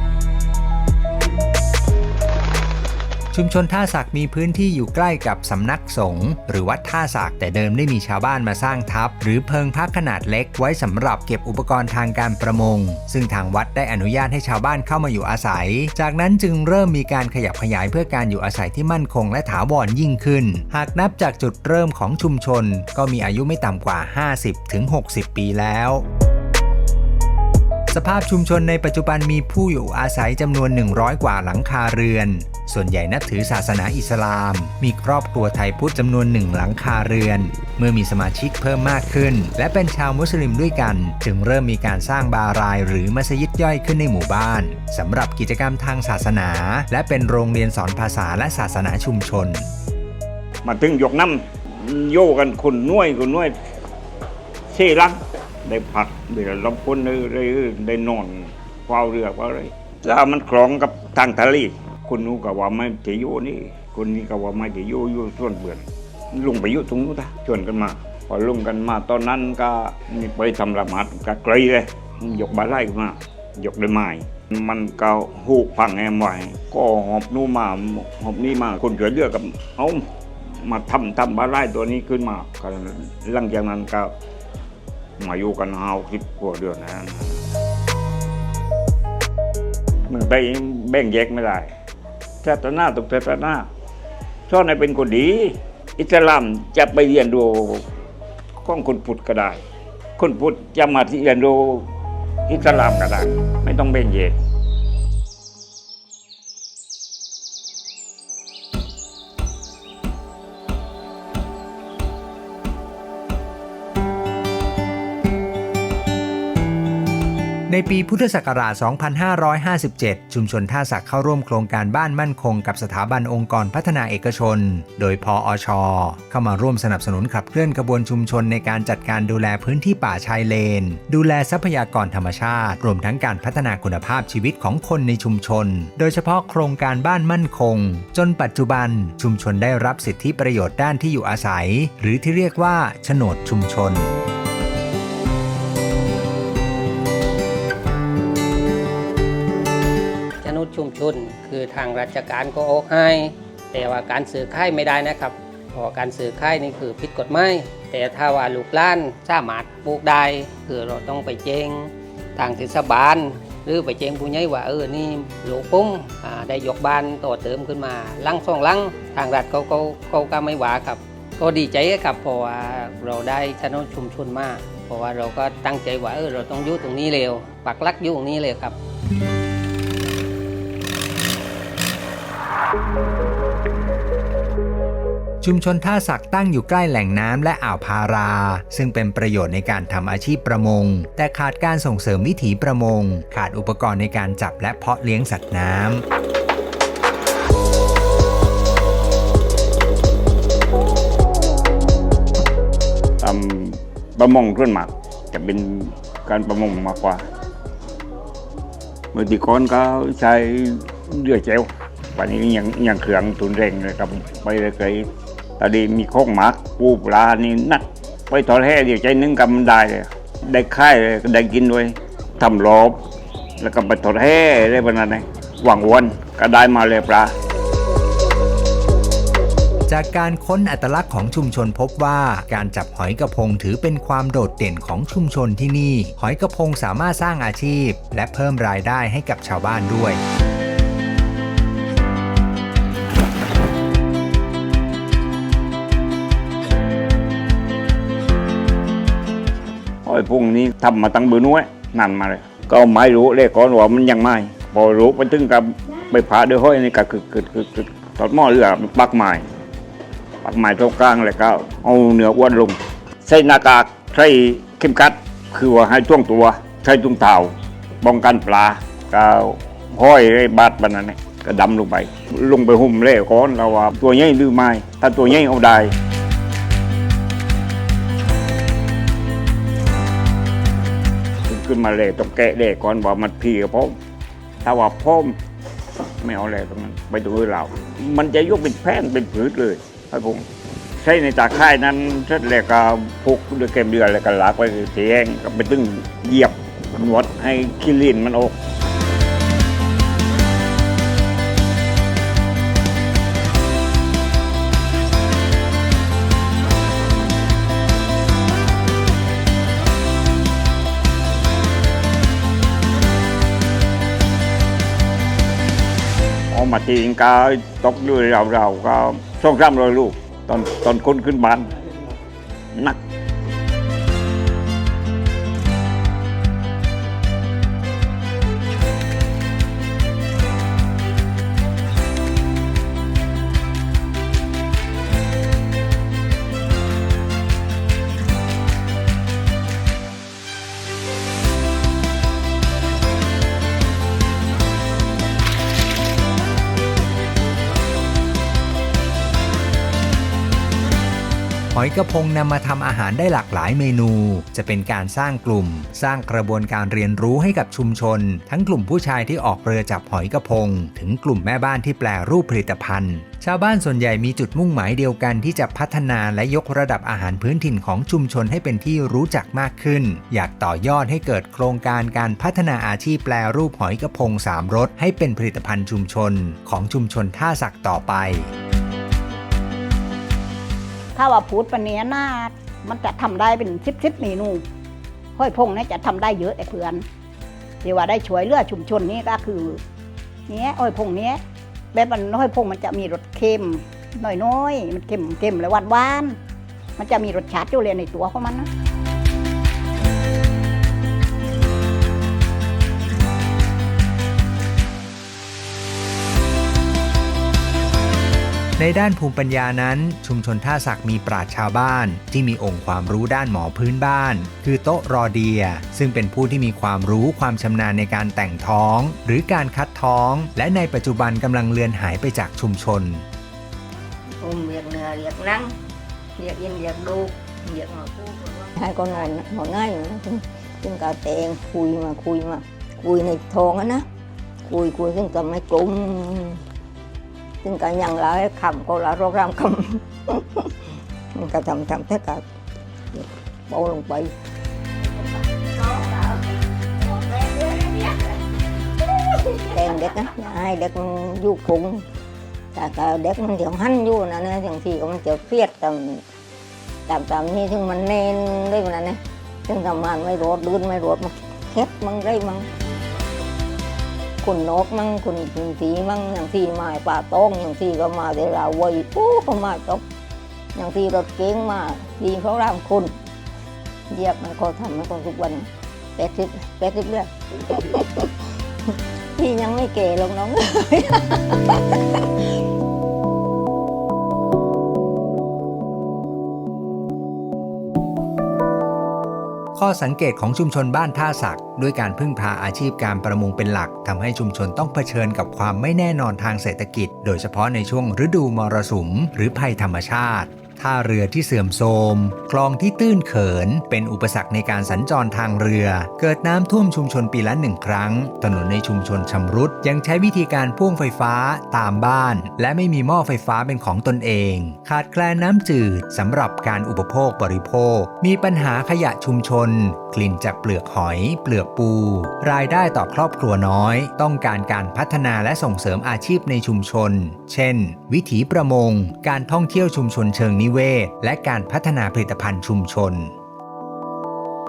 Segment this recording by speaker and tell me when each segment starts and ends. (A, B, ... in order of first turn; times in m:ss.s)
0:03.3-0:26.0 A
0:27.9-0:49.7 A
0:50.6-0:53.6 B
0:54.7-1:20.0 B
1:20.6-1:24.1 B
1:25.2-1:27.4 B
1:30.1-1:31.7 B
1:32.4-1:33.7 B
1:34.5-1:37.8 B
1:38.6-1:39.6 B
1:40.2-1:41.9 B
1:42.5-1:44.4 B
1:57.7-2:24.1 A
2:30.4-2:58.8 C
3:05.4-3:16.0 A
3:23.2-3:27.2 B
3:29.1-3:35.1 B
3:35.6-3:43.0 B
3:43.6-3:47.3 B
3:49.9-4:00.2 A
4:10.0-4:19.4 B
4:20.4-4:36.0 B
4:41.5-4:44.0 B
4:44.6-4:45.4 B
4:46.2-4:50.4 B
4:51.0-4:58.6 B
5:16.5-5:21.7 B
5:51.7-6:18.5 A
6:21.2-6:24.6 D
6:25.4-6:27.1 D
6:27.8-6:29.8 D
6:30.5-6:31.4 D
6:31.9-6:36.4 D
6:37.0-6:38.7 D
6:48.8-7:03.2 A
7:04.4-7:05.7 E
7:06.4-7:14.0 F
7:06.4-7:08.6 E
7:14.7-7:15.9 F
7:16.0-7:16.5 E
7:17.6-7:20.4 F
7:21.3-7:22.4 F
7:23.1-7:24.3 F
7:29.6-7:32.0 F
7:31.1-7:31.6 E
7:32.7-7:36.0 F
7:37.1-7:42.7 F
7:44.4-7:50.0 F
7:50.8-7:53.2 F
7:54.1-7:58.3 F
7:59.3-8:02.2 F
8:09.8-8:53.3 A